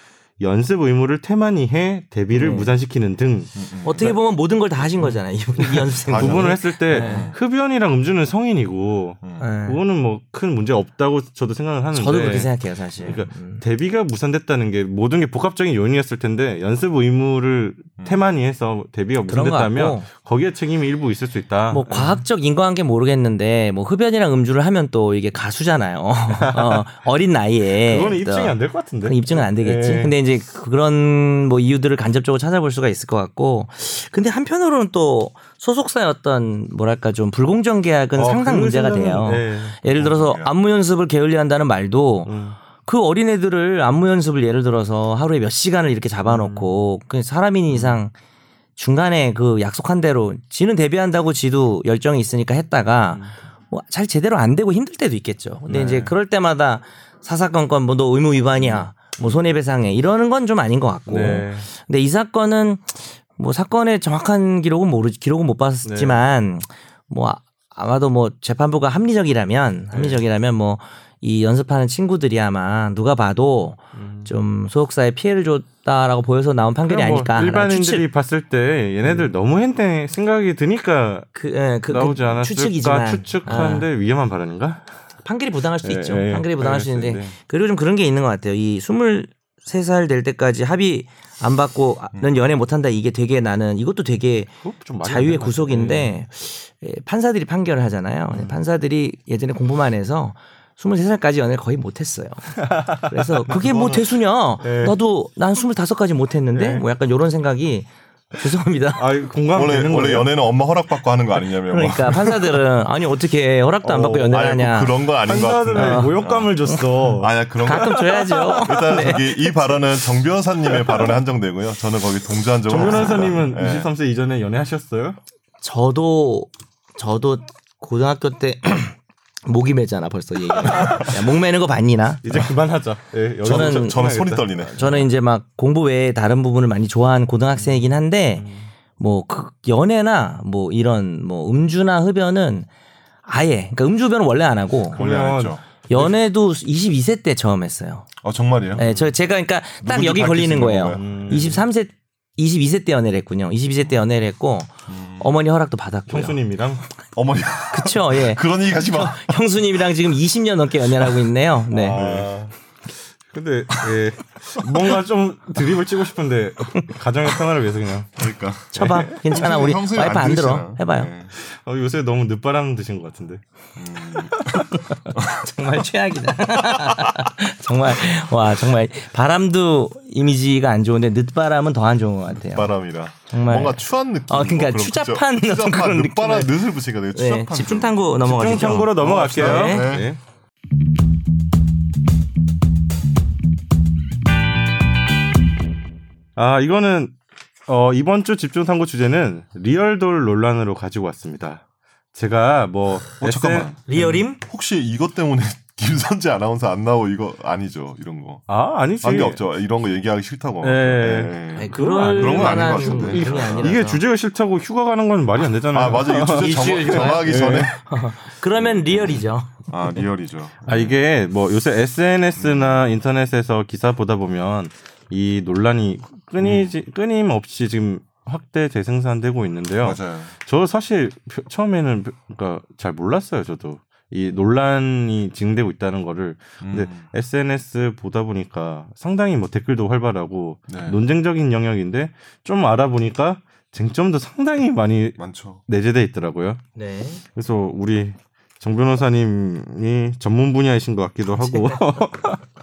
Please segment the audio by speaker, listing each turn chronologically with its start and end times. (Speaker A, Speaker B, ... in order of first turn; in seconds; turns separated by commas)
Speaker A: 0.4-3.6, Speaker B: 2.3-2.7, Speaker C: 3.5-4.1, Speaker B: 3.8-7.3, Speaker A: 5.0-22.2, Speaker C: 6.1-7.4, Speaker B: 9.4-9.8, Speaker B: 11.9-13.6, Speaker B: 19.2-20.1, Speaker B: 21.7-48.1, Speaker A: 26.3-26.8, Speaker A: 27.8-30.1, Speaker A: 38.1-39.8, Speaker C: 39.9-40.5, Speaker A: 42.2-42.6, Speaker A: 46.3-46.8, Speaker A: 47.7-48.0, Speaker B: 48.8-78.0, Speaker A: 55.7-56.1, Speaker A: 58.6-58.9, Speaker A: 61.1-61.7, Speaker A: 65.8-66.2, Speaker A: 69.9-70.2, Speaker A: 73.9-74.3, Speaker A: 76.8-81.3, Speaker B: 79.0-79.3, Speaker B: 81.3-83.8, Speaker A: 81.9-84.9, Speaker B: 85.2-94.5, Speaker A: 85.8-87.3, Speaker A: 94.6-96.2, Speaker B: 95.0-109.0, Speaker A: 98.3-98.6, Speaker A: 102.6-103.1, Speaker C: 103.5-104.1, Speaker A: 104.6-105.0, Speaker A: 106.5-106.8, Speaker A: 109.0-110.3, Speaker C: 109.5-112.6, Speaker B: 111.7-115.0, Speaker C: 113.8-118.0, Speaker A: 115.2-119.4, Speaker B: 115.7-116.8, Speaker B: 117.6-119.2, Speaker C: 118.6-123.9, Speaker A: 120.7-121.2, Speaker A: 122.6-125.2, Speaker B: 125.6-132.5, Speaker C: 130.7-131.0, Speaker A: 130.7-131.1, Speaker A: 132.2-134.8, Speaker C: 133.4-135.1, Speaker B: 133.4-134.0, Speaker B: 134.8-138.4, Speaker A: 137.5-138.7, Speaker B: 139.0-142.7, Speaker B: 143.2-145.0, Speaker C: 144.9-145.6, Speaker A: 144.9-146.1, Speaker B: 145.9-148.1, Speaker C: 148.2-149.1, Speaker B: 148.8-156.4, Speaker C: 149.8-151.5, Speaker A: 150.9-151.6, Speaker C: 154.9-155.3, Speaker A: 156.1-156.8, Speaker C: 157.1-159.4, Speaker B: 157.7-162.0, Speaker A: 161.7-162.5, Speaker C: 161.9-162.5, Speaker A: 163.3-168.2, Speaker C: 168.2-171.3, Speaker B: 168.7-171.1, Speaker A: 168.7-169.2, Speaker A: 171.3-173.4, Speaker C: 173.8-175.5, Speaker B: 174.5-182.7, Speaker C: 176.5-177.3, Speaker C: 182.4-190.1, Speaker B: 183.3-186.5, Speaker B: 187.1-189.9, Speaker A: 188.2-190.2, Speaker A: 196.3-197.1, Speaker A: 197.7-201.6, Speaker A: 202.1-204.2, Speaker C: 203.2-208.4, Speaker B: 203.9-204.4, Speaker A: 208.5-209.4, Speaker C: 209.0-213.8, Speaker A: 210.6-217.7, Speaker B: 211.5-214.0, Speaker C: 215.7-217.8, Speaker B: 216.4-219.7, Speaker C: 218.6-220.9, Speaker A: 220.7-246.6, Speaker C: 222.4-222.8, Speaker C: 226.4-226.7, Speaker C: 229.8-230.3, Speaker C: 236.6-237.0, Speaker C: 240.7-241.0, Speaker C: 245.2-245.6, Speaker B: 246.7-247.2, Speaker A: 247.3-252.4, Speaker B: 251.4-252.0